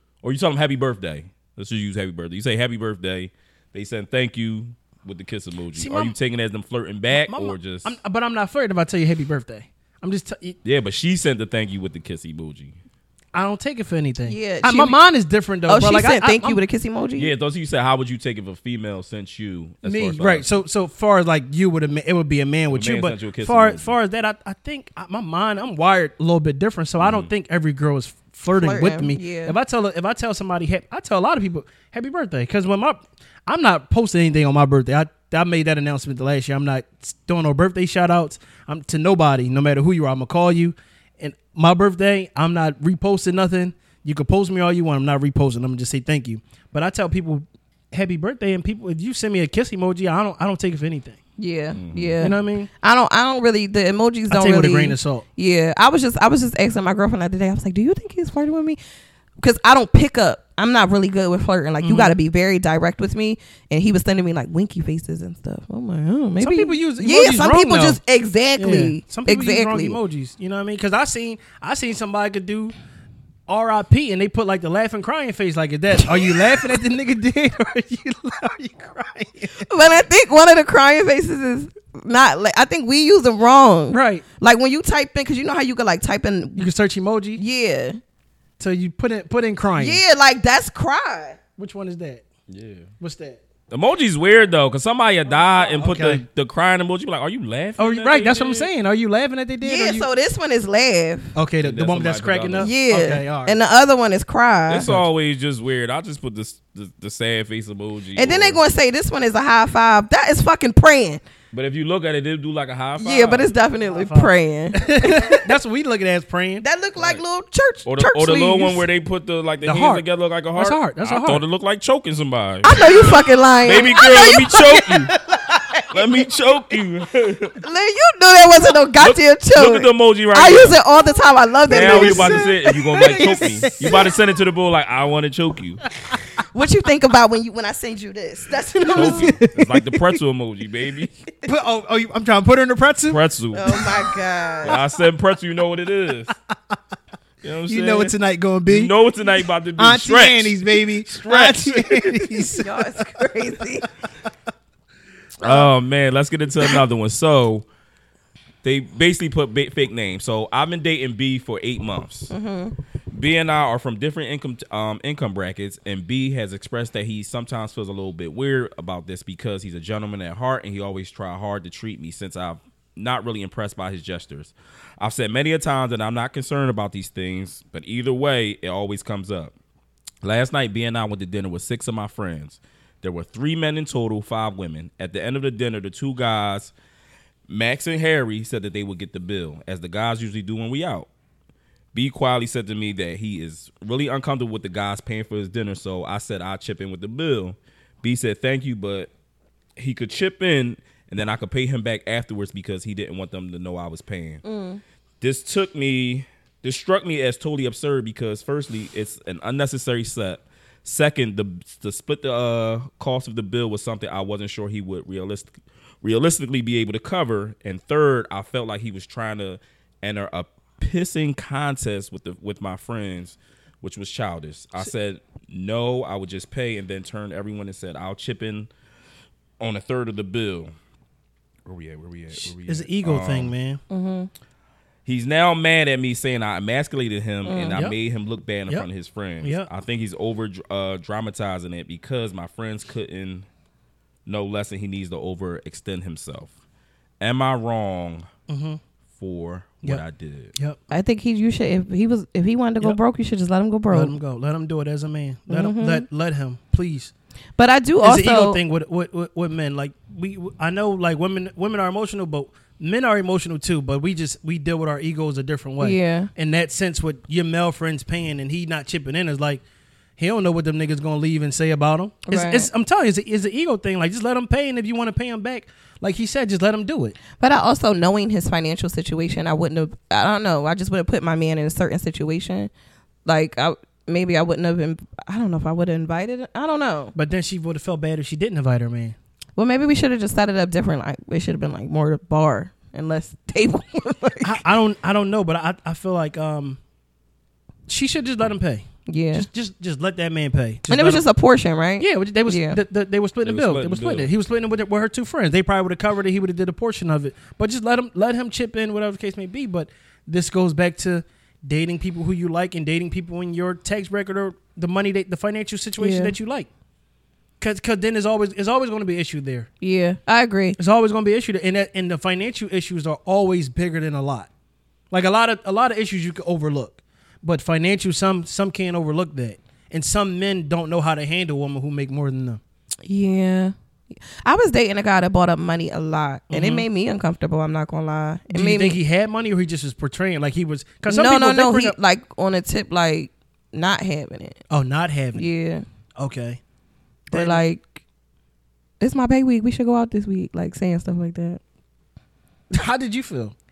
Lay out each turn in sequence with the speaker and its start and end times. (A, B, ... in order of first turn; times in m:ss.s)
0:00.2-0:07.9 A
0:05.7-0:06.2 B
0:07.1-0:10.6 B
0:10.6-0:12.8 A
0:13.3-0:16.6 B
0:14.3-0:15.0 C
0:15.7-0:17.3 C
0:17.2-0:20.5 A
0:19.8-0:51.2 B
0:22.7-0:23.9 A
0:27.0-0:27.3 A
0:28.5-0:29.5 C
0:51.4-0:58.8 C
0:51.7-0:52.2 A
0:52.2-0:52.7 B
0:54.3-0:55.2 B
0:59.4-1:10.0 C
1:01.8-1:02.1 B
1:06.4-1:08.0 B
1:08.6-1:12.7 B
1:13.5-1:19.7 B
1:16.1-1:16.5 C
1:19.6-1:26.7 C
1:23.9-1:24.2 B
1:26.6-1:27.4 B
1:27.4-1:28.0 C
1:28.6-1:30.0 B
1:29.8-1:31.4 C
1:31.6-1:32.2 B
1:32.5-1:32.9 A
1:33.0-1:33.4 B
1:33.7-1:38.7 A
1:35.5-1:36.2 B
1:37.8-1:40.1 B
1:39.6-1:41.3 C
1:41.3-1:43.6 B
1:41.6-1:42.7 A
1:42.6-1:44.9 C
1:44.7-1:48.6 A
1:48.2-1:51.2 C
1:51.5-1:53.5 A
1:53.0-1:55.5 C
1:53.8-1:56.6 B
1:56.6-1:58.8 C
1:57.0-1:57.2 A
1:57.8-2:05.1 A
1:59.6-2:01.4 B
2:02.6-2:06.0 C
2:05.9-2:07.6 A
2:07.6-2:14.1 C
2:09.0-2:10.8 A
2:11.7-2:15.8 A
2:11.7-2:14.1 B
2:16.4-2:19.8 C
2:18.8-2:19.4 B
2:18.9-2:21.1 A
2:21.4-2:23.2 B
2:23.1-2:23.8 A
2:23.5-2:24.8 C
2:24.6-2:26.3 A
2:27.4-2:28.1 A
2:27.6-2:28.9 B
2:28.7-2:32.4 A
2:29.8-2:32.7 B
2:32.5-2:33.9 C
2:35.4-2:37.6 A
2:38.6-2:42.3 A
2:42.3-2:42.8 C
2:43.1-2:59.5 A
3:00.2-3:06.7 A
3:07.5-3:11.1 A
3:11.9-3:19.1 A
3:19.8-3:24.4 A
3:24.4-3:24.8 C
3:25.2-3:48.7 A
3:49.6-3:50.7 A
3:51.6-3:53.5 A
3:52.3-3:53.8 B
3:53.9-3:54.3 C
3:55.0-4:03.4 A
3:57.4-3:57.8 C
3:59.4-3:59.7 B
4:04.2-4:06.5 A
4:07.2-4:08.3 A
4:08.5-4:08.8 B
4:09.2-4:10.5 A
4:10.9-4:14.1 C
4:13.9-4:17.1 B
4:15.5-4:16.0 C
4:17.6-4:18.6 C
4:18.0-4:29.6 B
4:25.8-4:26.3 C
4:30.2-4:37.2 B
4:32.3-4:32.7 C
4:37.4-4:42.7 C
4:43.2-4:47.1 C
4:47.1-4:49.2 B
4:49.6-4:54.6 C
4:54.4-4:56.8 B
4:57.9-5:01.2 B
4:59.1-4:59.5 C
5:00.9-5:02.8 C
5:02.0-5:16.7 B
5:03.4-5:04.3 A
5:16.0-5:16.3 C
5:17.6-5:19.7 B
5:19.8-5:20.8 C
5:20.8-5:24.5 B
5:25.1-5:32.6 B
5:33.0-5:33.7 C
5:34.3-5:39.0 C
5:36.5-5:36.8 B
5:38.5-5:42.0 B
5:41.1-5:44.6 C
5:44.7-5:45.4 B
5:45.3-5:45.8 C
5:46.2-5:46.6 B
5:47.3-5:47.6 B
5:47.3-5:48.0 C
5:49.0-5:51.6 C
5:52.7-5:53.5 B